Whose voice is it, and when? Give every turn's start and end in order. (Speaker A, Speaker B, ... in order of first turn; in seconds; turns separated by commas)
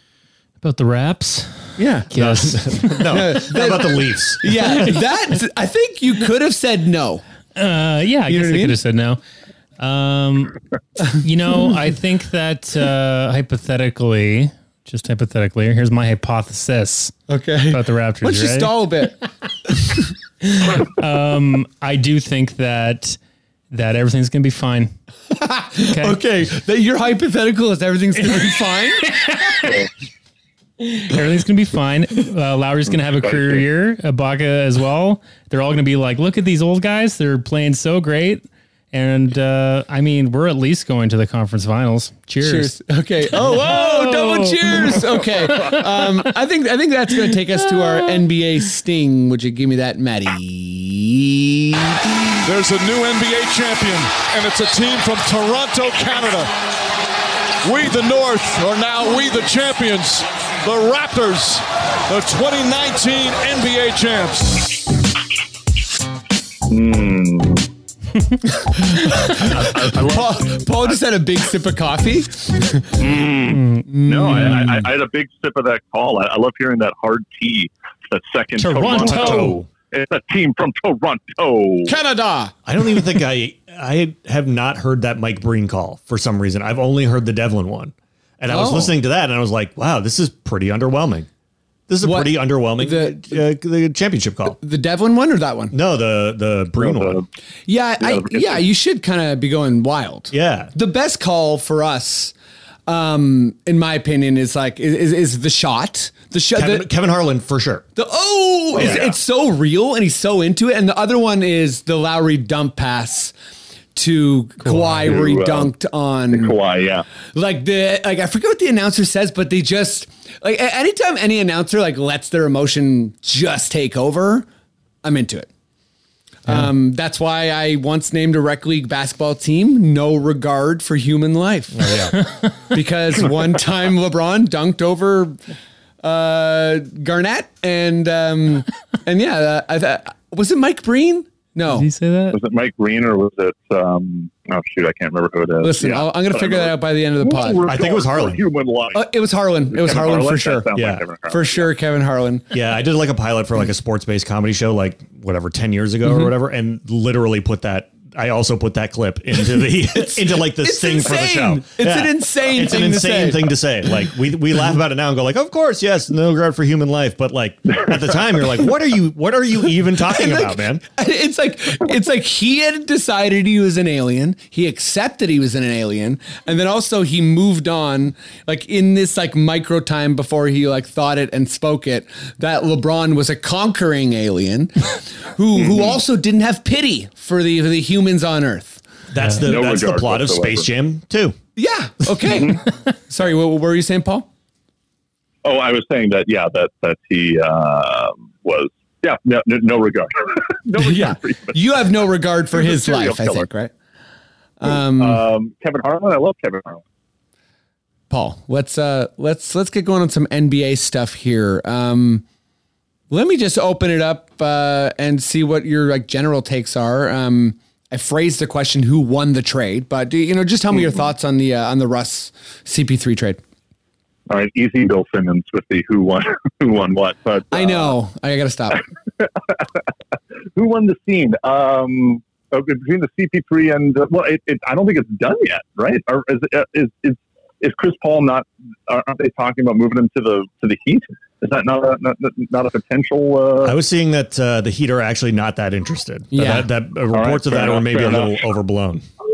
Speaker A: 0.6-3.2, Speaker B: 1.8-2.1, Speaker C: 2.1-4.8, Speaker B: 3.1-7.2, Speaker A: 4.7-5.0, Speaker A: 7.5-9.2, Speaker B: 8.3-8.8, Speaker A: 9.8-18.8, Speaker B: 17.3-19.2, Speaker A: 20.4-23.2, Speaker A: 23.7-24.9, Speaker B: 25.4-29.1, Speaker A: 25.9-26.2, Speaker A: 30.8-42.8, Speaker D: 33.3-33.6, Speaker B: 42.4-52.0, Speaker A: 43.3-46.1, Speaker E: 52.4-56.5, Speaker E: 57.6-64.8, Speaker D: 66.7-67.7, Speaker B: 68.6-73.0, Speaker D: 69.4-71.0, Speaker D: 73.0-82.0, Speaker A: 73.5-73.9, Speaker B: 73.9-74.9, Speaker A: 78.6-79.6, Speaker C: 79.0-79.7, Speaker B: 81.9-82.6, Speaker C: 82.7-91.3, Speaker B: 88.5-88.9, Speaker C: 91.9-94.6, Speaker B: 92.0-93.5, Speaker B: 94.6-95.7, Speaker C: 95.7-97.2, Speaker D: 96.8-97.3, Speaker B: 97.7-102.3, Speaker D: 98.0-98.6, Speaker C: 100.3-100.7, Speaker B: 102.9-106.9, Speaker C: 106.5-107.9, Speaker B: 108.0-113.3, Speaker D: 108.8-109.1, Speaker C: 108.8-109.0, Speaker B: 114.0-116.6, Speaker C: 114.7-115.1, Speaker D: 115.0-115.7, Speaker D: 116.3-117.0, Speaker B: 117.3-124.5, Speaker B: 125.0-125.5, Speaker B: 126.5-131.9, Speaker C: 131.7-132.2, Speaker B: 132.7-135.4, Speaker B: 136.0-141.9, Speaker A: 141.7-142.4, Speaker D: 142.3-149.1, Speaker B: 145.6-147.6, Speaker C: 147.7-148.4, Speaker B: 148.9-150.7, Speaker D: 149.7-151.7, Speaker C: 150.7-151.0, Speaker B: 151.3-152.5, Speaker C: 152.5-170.8, Speaker B: 159.9-163.4, Speaker B: 170.0-188.8, Speaker C: 189.1-191.4, Speaker D: 189.4-190.7, Speaker B: 191.6-194.3, Speaker D: 195.4-201.6, Speaker B: 200.8-203.7, Speaker D: 202.5-203.5, Speaker B: 204.6-205.2, Speaker D: 204.7-206.8, Speaker B: 208.1-212.2, Speaker B: 213.1-223.4, Speaker D: 224.3-228.0, Speaker B: 227.5-228.8, Speaker D: 229.2-229.7, Speaker D: 230.6-243.8, Speaker C: 243.6-249.0, Speaker B: 246.3-246.7, Speaker D: 247.1-248.4